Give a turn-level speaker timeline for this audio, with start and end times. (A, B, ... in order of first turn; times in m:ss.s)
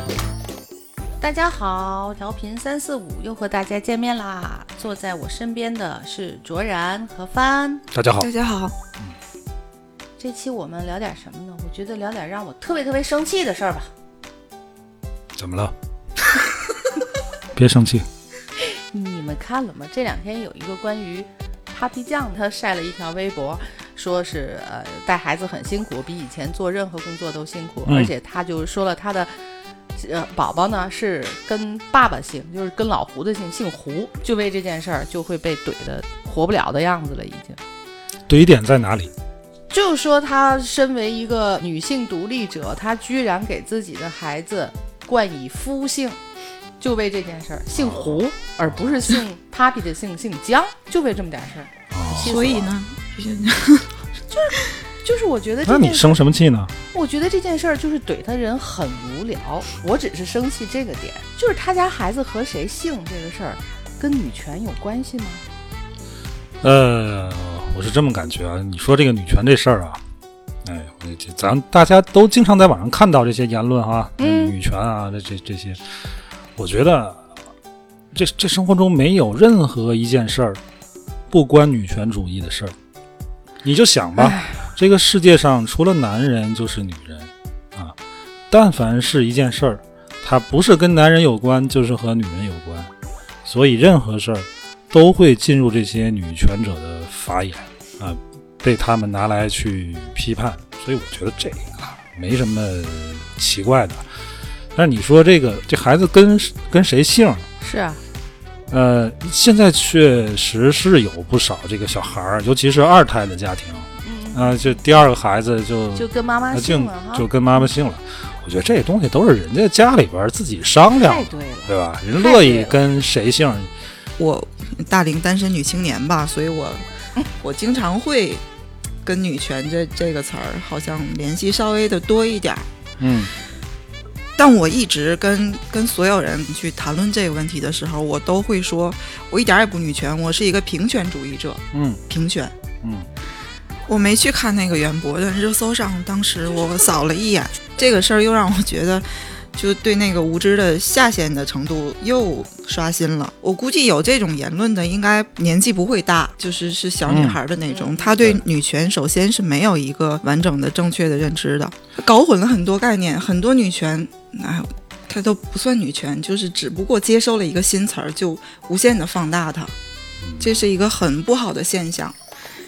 0:01.2-0:07.8 A
0:07.9-0:08.3 B
0:08.2-0:08.8 C
0:10.2-0:13.9 A
0:15.4-0:15.7 B
0:17.6-0:18.0 B
0:18.6-0:29.3 A
0:27.8-0:28.1 B
0:30.0-0:37.6 A
0:38.3-0:39.1 B
0:39.7-0:46.2 A
0:46.8-0:52.7 A
0:47.7-0:48.9 B
0:51.9-0:52.4 B
0:52.2-0:53.9 C
0:54.3-0:56.2 A
0:55.7-0:56.7 B
0:56.9-1:05.4 A
1:06.6-1:10.0 B
1:10.6-1:15.8 B
1:14.2-1:14.5 A
1:16.6-1:17.2 B
1:18.1-1:20.6 B
1:21.3-1:22.7 B
1:23.6-1:27.9 B
1:24.2-1:24.6 A
1:28.5-1:32.9 B
1:33.4-1:44.0 B
1:44.8-1:47.5 B
1:47.6-1:48.0 A
1:48.7-2:03.7 B
1:54.0-1:54.8 A
1:55.9-1:57.3 A
2:00.9-2:02.8 A
2:04.2-2:08.4 C
2:09.0-2:12.7 C
2:13.0-2:13.3 B
2:14.4-2:22.5 C
2:21.7-2:22.0 B
2:23.9-2:49.8 C
2:37.1-2:37.4 B
2:37.7-2:38.2 A
2:50.2-2:50.6 B
2:50.4-2:52.2 C